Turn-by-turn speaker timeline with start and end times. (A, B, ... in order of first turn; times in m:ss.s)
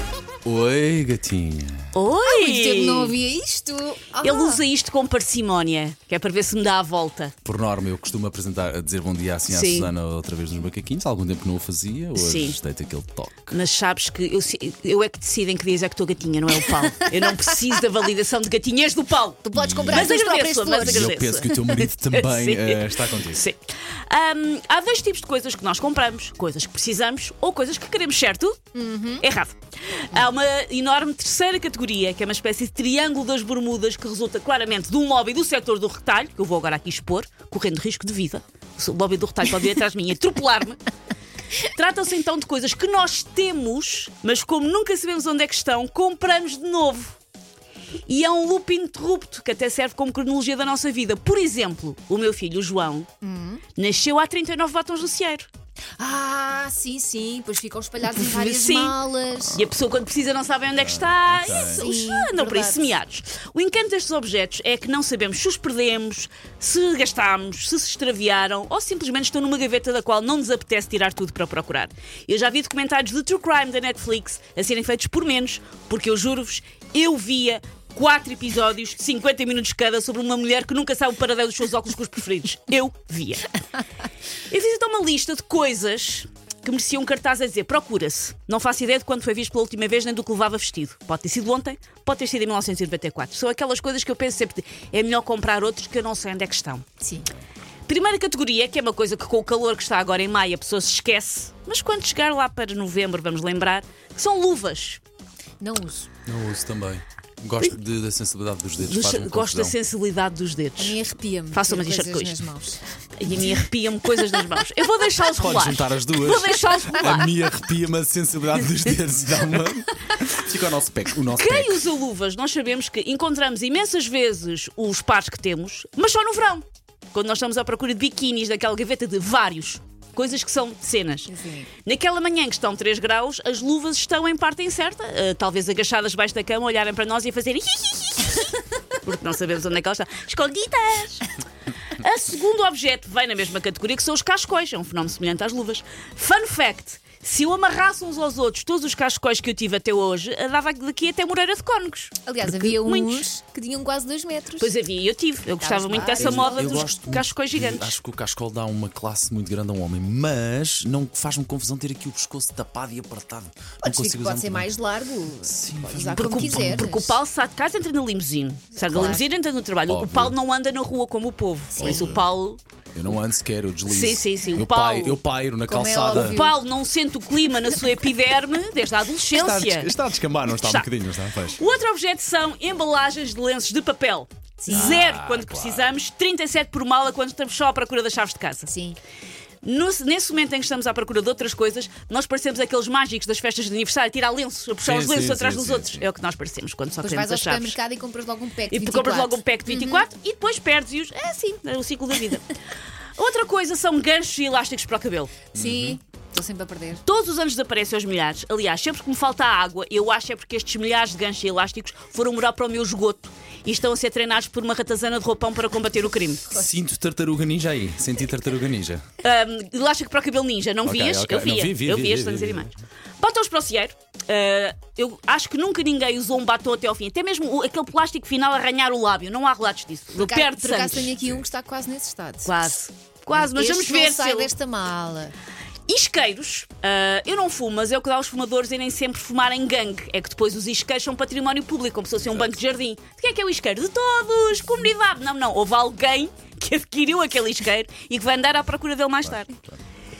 0:00.4-0:01.9 A
0:01.9-0:03.1 B
0:02.2-0:04.6 C
0:04.2-0:07.3 B
0:07.4-0:13.5 A
0:09.5-0:09.9 B
0:12.2-0:12.6 B
0:13.5-0:28.6 B
0:19.4-0:21.9 C
0:19.6-0:20.1 A
0:20.8-0:23.4 A
0:28.7-0:29.2 C
0:29.2-0:40.8 B
0:41.6-0:47.2 B
0:48.0-0:53.1 B
0:53.2-0:53.6 C
0:53.7-0:55.5 B
0:56.0-0:59.7 C
0:58.1-0:59.0 B
0:59.5-1:23.5 B
1:00.8-1:01.8 A
1:01.4-1:02.9 C
1:24.5-1:36.8 B
1:37.0-1:37.3 C
1:37.9-1:45.0 B
1:45.6-1:46.1 C
1:46.2-1:49.7 A
1:48.8-1:51.0 B
1:50.8-1:52.8 C
1:51.5-1:52.4 B
1:53.2-1:57.3 B
1:55.2-2:01.7 A
2:01.4-2:21.3 B
2:11.2-2:11.7 C
2:21.9-2:33.3 B
2:32.2-2:34.7 C
2:34.6-2:38.0 B
2:35.6-2:36.8 C
2:36.2-2:44.7 A
2:43.8-2:47.2 C
2:45.4-2:46.9 A
2:46.1-2:52.6 B
2:48.8-2:49.2 C
2:48.9-2:49.2 A
2:49.9-2:50.4 A
2:51.8-2:52.2 C
2:51.8-2:52.2 A
2:52.9-2:56.4 A
2:53.9-2:55.2 B
2:55.6-2:56.6 C
2:56.1-2:59.9 B
2:59.3-3:01.6 A
3:00.6-3:00.9 B
3:01.5-3:08.7 B
3:04.6-3:05.0 C
3:04.7-3:06.0 A
3:08.6-3:09.0 C
3:09.6-3:17.8 B
3:14.8-3:16.1 A
3:17.0-3:20.0 C
3:18.7-3:22.5 B
3:23.2-3:25.4 B
3:25.5-3:27.0 C
3:25.5-3:26.0 A
3:27.0-3:36.5 B
3:36.5-3:39.0 A
3:39.2-3:51.1 B
3:40.8-3:42.7 A
3:50.1-3:52.6 C
3:51.1-3:51.3 A
3:52.4-3:54.5 B
3:53.3-3:55.3 C
3:55.9-4:09.5 B
4:09.2-4:09.8 A